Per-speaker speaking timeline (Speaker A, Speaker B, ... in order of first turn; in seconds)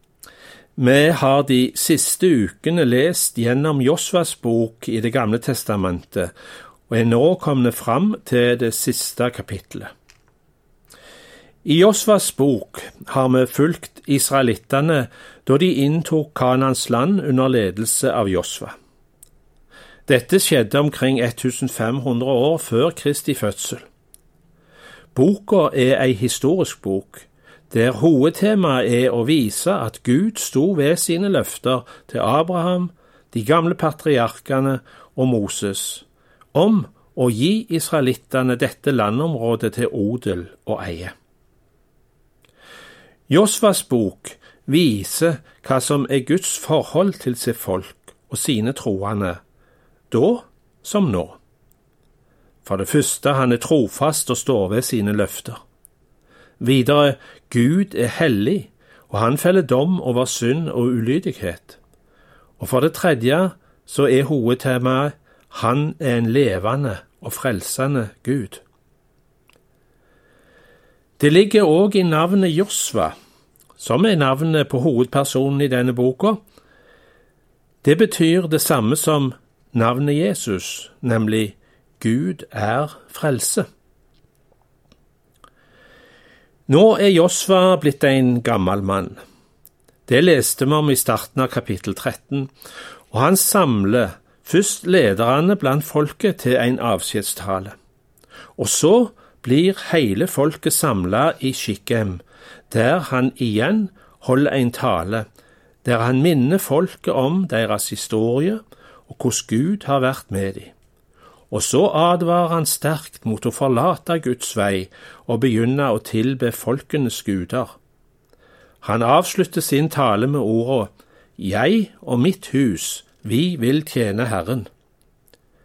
Speaker A: 0.8-6.3, 6.9-9.9, 11.6-18.7, 20.1-23.8, 25.1-41.1, 43.3-49.4, 50.1-51.4, 52.6-55.6, 56.6-61.8, 62.6-68.6, 71.2-73.1, 73.8-76.4, 77.8-83.7, 86.7-89.2, 90.1-92.5, 93.1-97.7, 98.6-105.2, 105.8-110.7, 111.5-117.8, 118.8-124.7